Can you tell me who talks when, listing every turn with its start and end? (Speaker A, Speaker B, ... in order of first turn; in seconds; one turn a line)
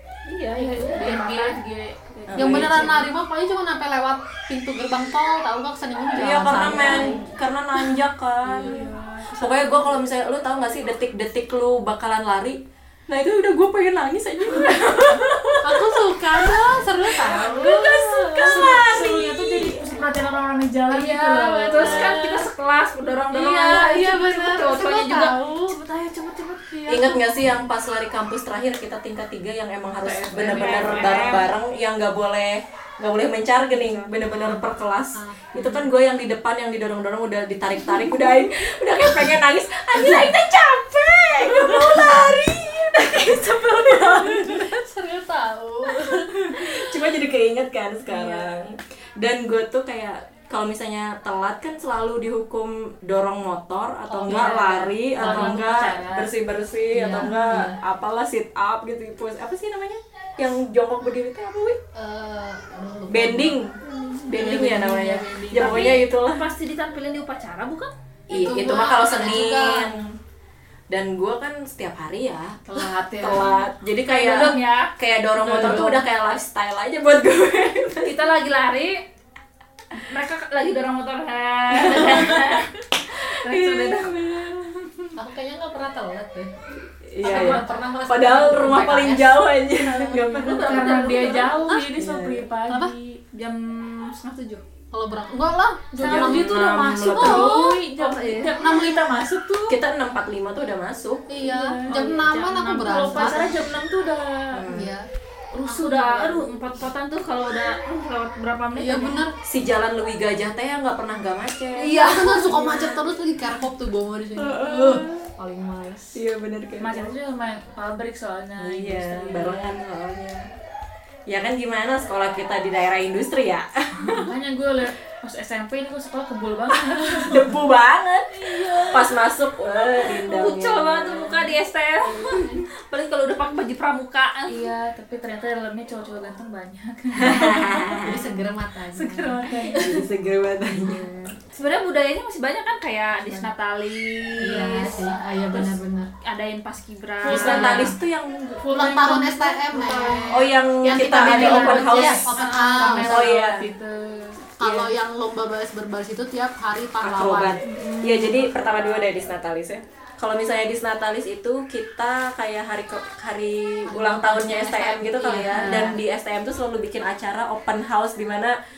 Speaker A: 0.3-1.6
Speaker B: 0.5-3.0
Speaker C: 0.8-1.6
Speaker D: 2.3-3.0
Speaker C: 2.4-7.2
Speaker A: 2.4-2.9
Speaker D: 6.1-8.8
Speaker B: 6.5-7.2
Speaker B: 8.6-9.4
Speaker C: 8.6-9.8
Speaker D: 9.4-19.9
Speaker C: 15.6-18.0
Speaker A: 18.3-18.5
Speaker B: 18.4-22.2
Speaker C: 20.9-22.5
Speaker A: 21.7-25.4
Speaker C: 23.3-25.8
Speaker B: 25.7-27.0
Speaker C: 26.7-27.1
Speaker D: 26.9-44.8
Speaker C: 30.0-31.4
Speaker B: 30.2-30.8
Speaker A: 30.6-31.5
Speaker C: 34.3-34.6
Speaker C: 35.1-35.9
Speaker C: 37.9-38.2
Speaker C: 40.0-40.3
Speaker C: 41.7-42.1
Speaker C: 43.9-46.6
Speaker D: 46.0-61.8
Speaker B: 48.1-48.4
Speaker C: 54.1-54.7
Speaker B: 54.2-56.3
Speaker C: 55.2-55.6
Speaker C: 56.9-57.8
Speaker C: 62.0-63.6
Speaker D: 63.1-66.5
Speaker B: 64.3-66.0
Speaker A: 65.6-67.9
Speaker D: 68.3-70.2
Speaker C: 68.3-70.0
Speaker D: 70.9-78.2
Speaker B: 72.7-73.6
Speaker A: 74.0-74.9
Speaker B: 75.4-75.8
Speaker C: 75.5-76.0
Speaker A: 78.0-79.0
Speaker A: 79.9-84.2
Speaker D: 81.7-85.1
Speaker C: 85.2-86.5
Speaker D: 87.0-92.5
Speaker C: 87.2-89.5
Speaker A: 87.3-87.7
Speaker A: 90.1-91.9
Speaker B: 90.1-93.2
Speaker A: 93.3-94.6
Speaker C: 94.9-97.6
Speaker B: 96.0-99.4
Speaker D: 96.0-97.5
Speaker A: 97.2-98.6
Speaker C: 98.6-99.8
Speaker D: 99.7-101.2
Speaker C: 101.3-103.5
Speaker B: 101.4-102.3
Speaker A: 101.9-103.7
Speaker B: 102.8-104.7
Speaker D: 104.5-104.9
Speaker C: 104.7-105.1
Speaker B: 105.5-106.6
Speaker A: 105.6-109.2
Speaker C: 108.7-109.3
Speaker D: 109.4-112.1
Speaker A: 111.8-113.0
Speaker C: 111.9-116.2
Speaker D: 114.4-115.3
Speaker D: 116.1-117.2
Speaker B: 116.8-119.8
Speaker D: 118.6-120.5
Speaker D: 121.3-124.3
Speaker B: 124.0-127.5
Speaker D: 127.2-131.6
Speaker B: 128.5-129.0
Speaker A: 130.1-134.7
Speaker D: 132.2-132.6
Speaker B: 134.5-138.3
Speaker D: 137.2-138.3
Speaker C: 137.9-140.0
Speaker B: 138.9-140.0
Speaker D: 139.7-141.4
Speaker A: 141.5-147.9
Speaker C: 144.4-146.1
Speaker B: 147.2-147.9
Speaker C: 147.2-147.9
Speaker D: 147.3-149.3
Speaker B: 148.6-150.4
Speaker C: 148.7-153.3
Speaker D: 150.3-152.3
Speaker B: 151.0-154.4
Speaker A: 151.3-153.1
Speaker D: 153.0-153.7
Speaker C: 154.6-157.6
Speaker D: 157.0-168.6
Speaker B: 157.6-159.1
Speaker C: 163.9-166.0
Speaker B: 165.3-165.9